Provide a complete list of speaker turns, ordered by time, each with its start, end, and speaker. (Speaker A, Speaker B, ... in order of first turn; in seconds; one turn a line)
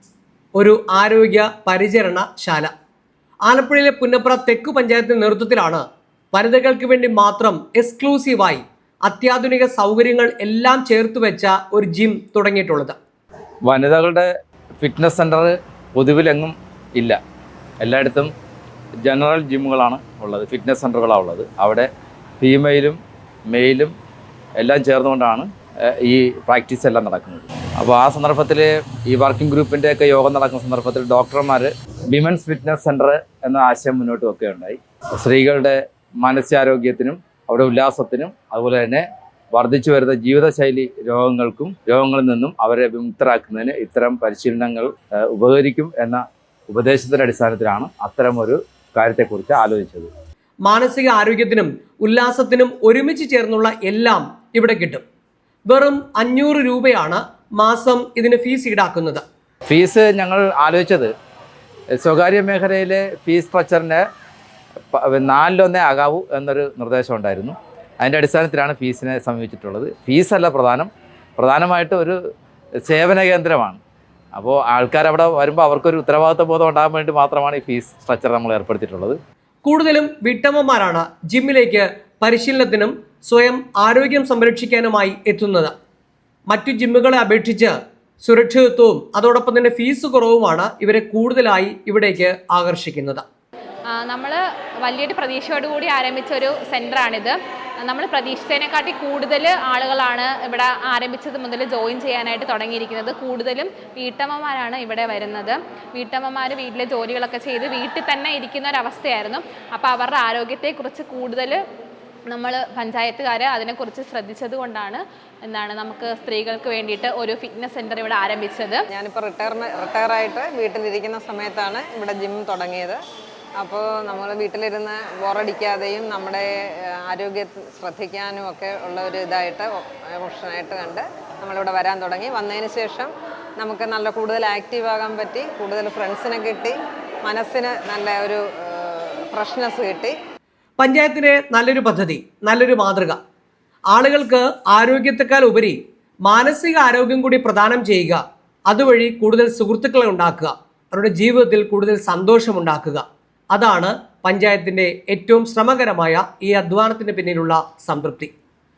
Speaker A: 0.6-2.7
Speaker A: 3.5-13.0
Speaker B: 13.7-14.3
Speaker B: 14.8-17.2
Speaker B: 17.8-18.3
Speaker B: 19.1-21.9
Speaker B: 22.4-23.0
Speaker B: 23.5-23.9
Speaker B: 24.6-50.1
Speaker A: 50.6-55.0
Speaker A: 55.7-59.2
Speaker B: 59.7-61.1
Speaker B: 62.0-64.0
Speaker B: 64.9-72.2
Speaker B: 72.8-73.8
Speaker B: 74.3-79.2
Speaker A: 79.6-85.7
Speaker A: 86.5-93.2
Speaker C: 94.0-111.6
Speaker C: 112.3-118.8
Speaker D: 118.9-123.0
Speaker D: 123.6-126.5
Speaker D: 127.0-140.2
Speaker A: 140.8-143.2
Speaker A: 143.9-158.3